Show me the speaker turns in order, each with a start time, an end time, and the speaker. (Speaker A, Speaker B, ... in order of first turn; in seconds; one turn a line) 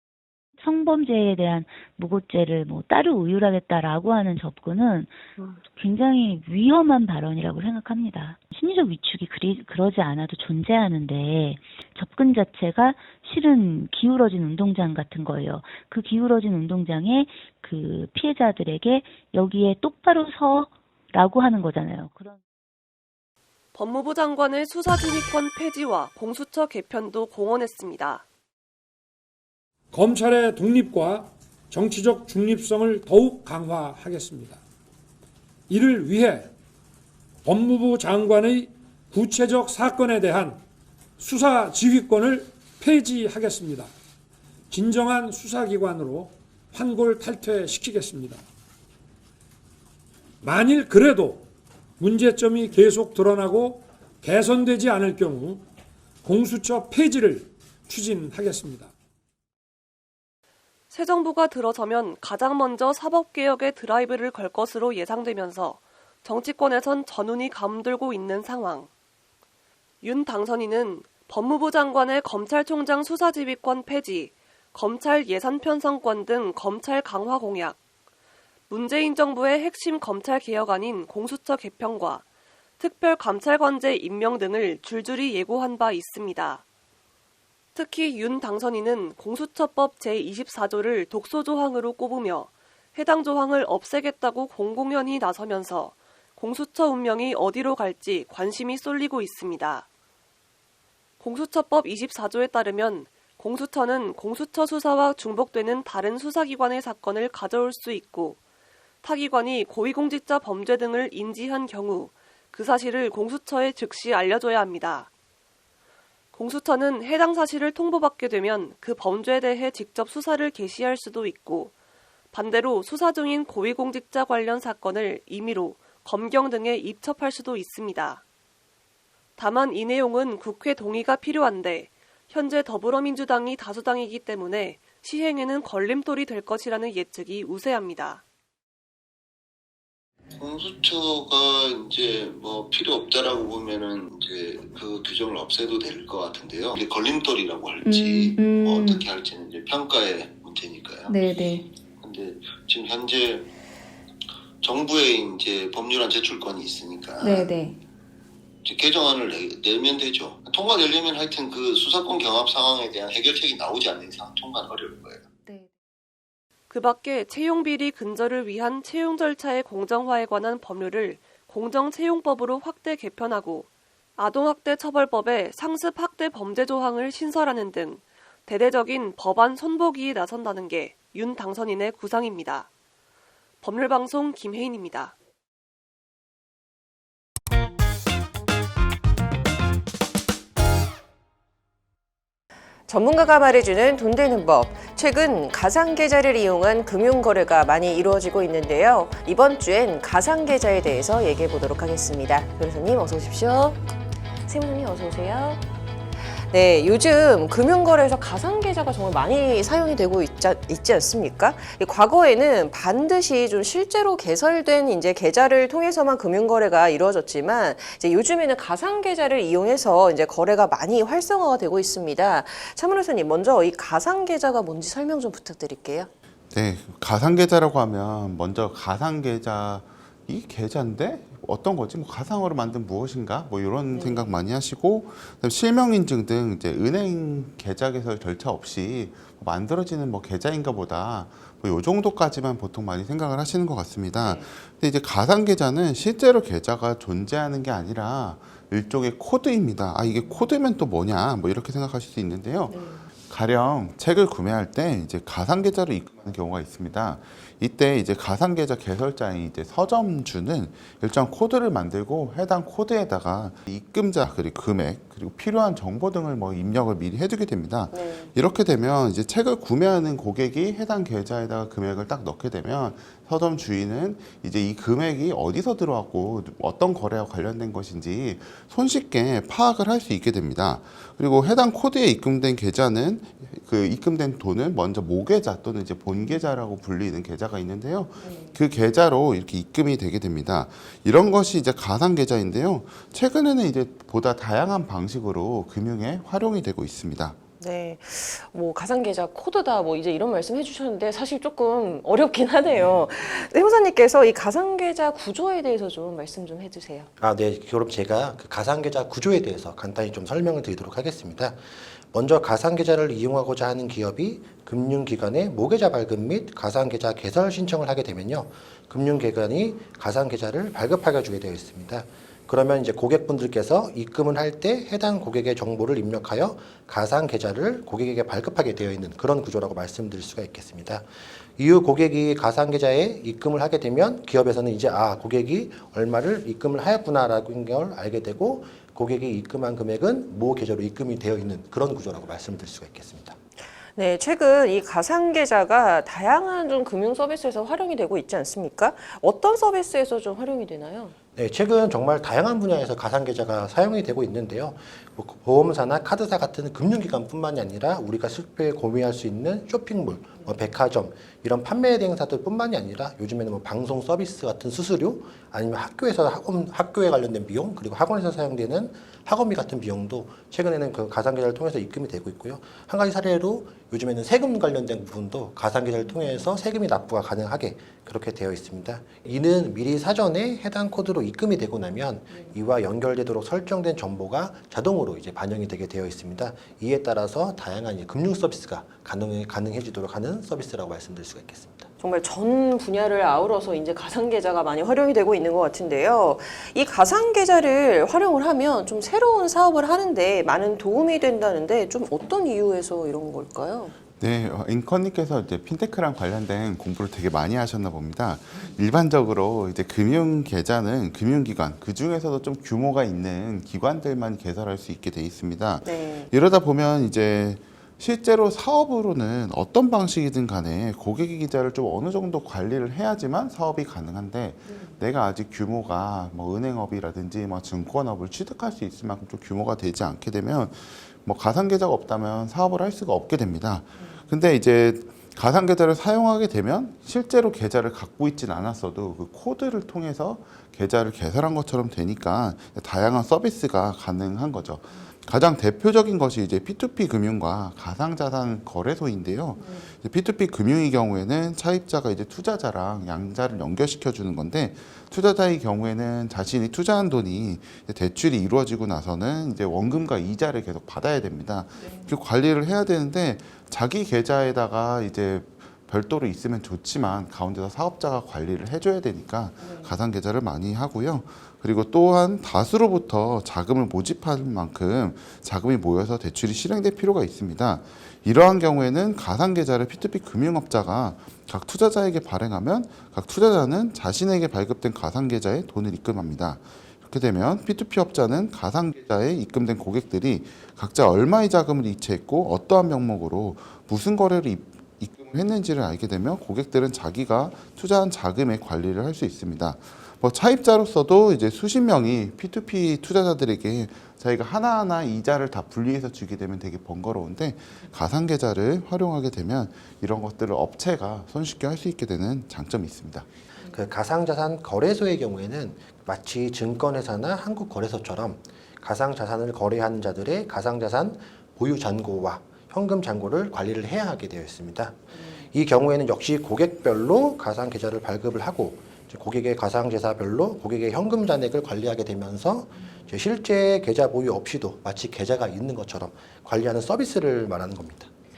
Speaker A: 0.6-22.4
Speaker B: 23.7-28.2
Speaker C: 29.9-34.6
Speaker C: 35.7-36.5
Speaker C: 37.4-40.6
Speaker C: 41.2-43.9
Speaker C: 44.7-48.4
Speaker C: 50.4-51.5
Speaker C: 52.0-55.6
Speaker C: 56.2-58.9
Speaker B: 60.9-68.9
Speaker B: 70.0-77.8
Speaker B: 78.7-82.2
Speaker B: 82.8-86.6
Speaker B: 87.7-99.8
Speaker B: 101.2-108.4
Speaker B: 109.0-115.1
Speaker B: 116.3-121.7
Speaker B: 122.3-128.2
Speaker B: 129.4-138.2
Speaker D: 140.3-151.1
Speaker E: 147.8-149.0
Speaker E: 151.1-151.6
Speaker D: 152.0-153.5
Speaker D: 154.6-157.5
Speaker E: 157.2-157.7
Speaker D: 158.6-165.3
Speaker B: 166.7-182.7
Speaker B: 183.6-185.1
Speaker F: 192.9-203.8
Speaker F: 204.4-205.6
Speaker F: 206.5-226.1
Speaker G: 226.5-297.4
Speaker F: 233.9-234.4
Speaker F: 244.2-244.5
Speaker F: 250.1-250.4
Speaker F: 252.7-253.0
Speaker F: 267.9-268.3
Speaker F: 286.1-286.4
Speaker F: 288.2-288.5
Speaker F: 297.6-307.1
Speaker H: 307.2-343.4
Speaker F: 343.9-351.1
Speaker H: 351.4-391.9
Speaker F: 392.0-403.9
Speaker G: 404.2-513.3
Speaker F: 415.8-416.3
Speaker F: 424.6-424.9
Speaker F: 433.9-434.2
Speaker F: 449.6-449.9
Speaker F: 461.8-462.1
Speaker F: 469.6-469.9
Speaker H: 513.7-538.1
Speaker F: 525.1-525.4